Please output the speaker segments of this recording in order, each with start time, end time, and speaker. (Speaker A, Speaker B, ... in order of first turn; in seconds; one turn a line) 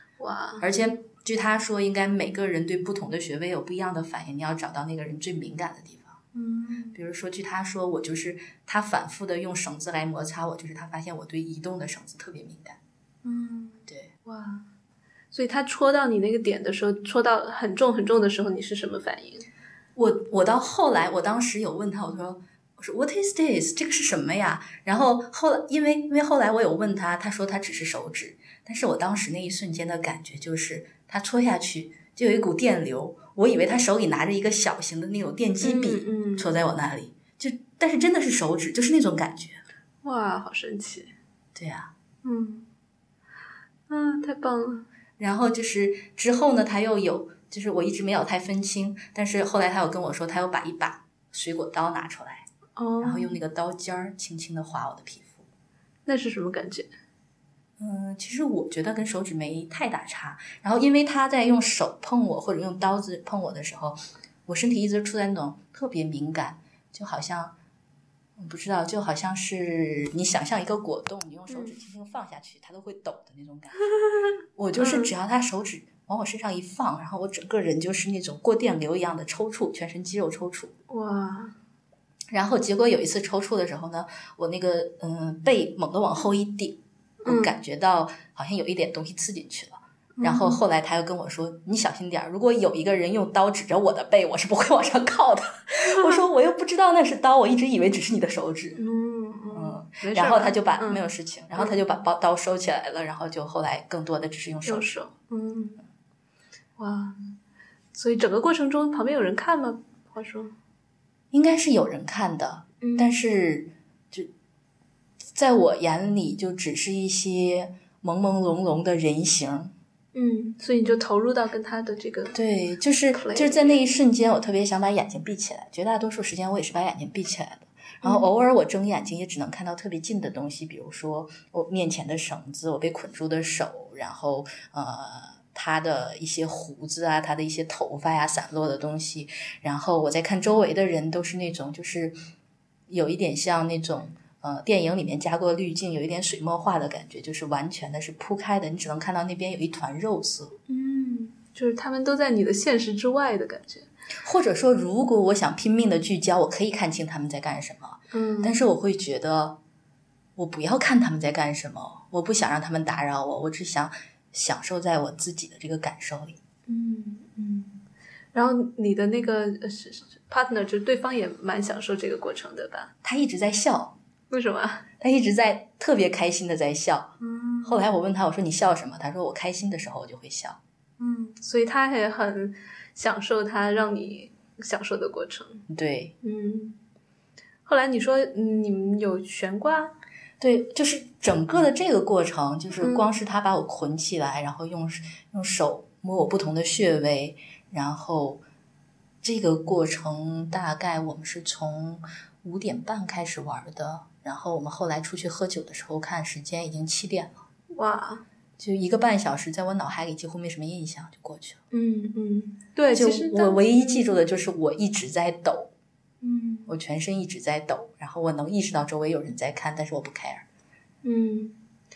Speaker A: 0.2-0.7
Speaker B: 0.6-6.2
Speaker A: 6.3-7.0
Speaker B: 6.9-12.8
Speaker A: 13.2-14.7
Speaker A: 15.3-19.5
Speaker B: 19.9-39.6
Speaker A: 35.6-36.5
Speaker A: 40.0-41.1
Speaker B: 41.5-41.9
Speaker A: 42.2-42.7
Speaker A: 43.9-44.9
Speaker B: 45.2-52.5
Speaker A: 52.8-53.4
Speaker B: 53.0-55.5
Speaker A: 56.1-56.9
Speaker B: 57.8-67.5
Speaker B: 68.4-73.9
Speaker A: 71.5-71.8
Speaker B: 74.6-80.7
Speaker A: 74.8-75.1
Speaker A: 80.9-81.5
Speaker B: 82.3-98.8
Speaker A: 87.2-87.5
Speaker A: 90.2-90.6
Speaker A: 98.8-101.0
Speaker B: 99.5-104.9
Speaker A: 104.7-105.8
Speaker A: 106.8-107.2
Speaker A: 107.9-110.5
Speaker B: 111.3-114.3
Speaker A: 112.8-113.2
Speaker B: 115.3-119.7
Speaker A: 120.1-122.4
Speaker B: 122.3-142.2
Speaker A: 123.1-123.8
Speaker B: 142.9-150.6
Speaker A: 150.7-153.9
Speaker B: 154.2-159.6
Speaker A: 158.1-158.6
Speaker B: 160.4-166.4
Speaker A: 166.7-167.8
Speaker A: 168.3-172.9
Speaker B: 173.0-174.0
Speaker A: 174.3-174.9
Speaker B: 175.0-180.6
Speaker A: 177.2-177.8
Speaker A: 181.0-185.6
Speaker B: 185.7-186.2
Speaker A: 186.2-186.8
Speaker A: 187.7-189.9
Speaker B: 190.4-198.4
Speaker A: 192.8-193.1
Speaker B: 199.2-207.4
Speaker A: 207.7-208.2
Speaker B: 208.6-211.6
Speaker A: 211.7-214.1
Speaker B: 212.9-215.7
Speaker A: 216.2-216.7
Speaker B: 216.7-220.4
Speaker A: 221.0-221.6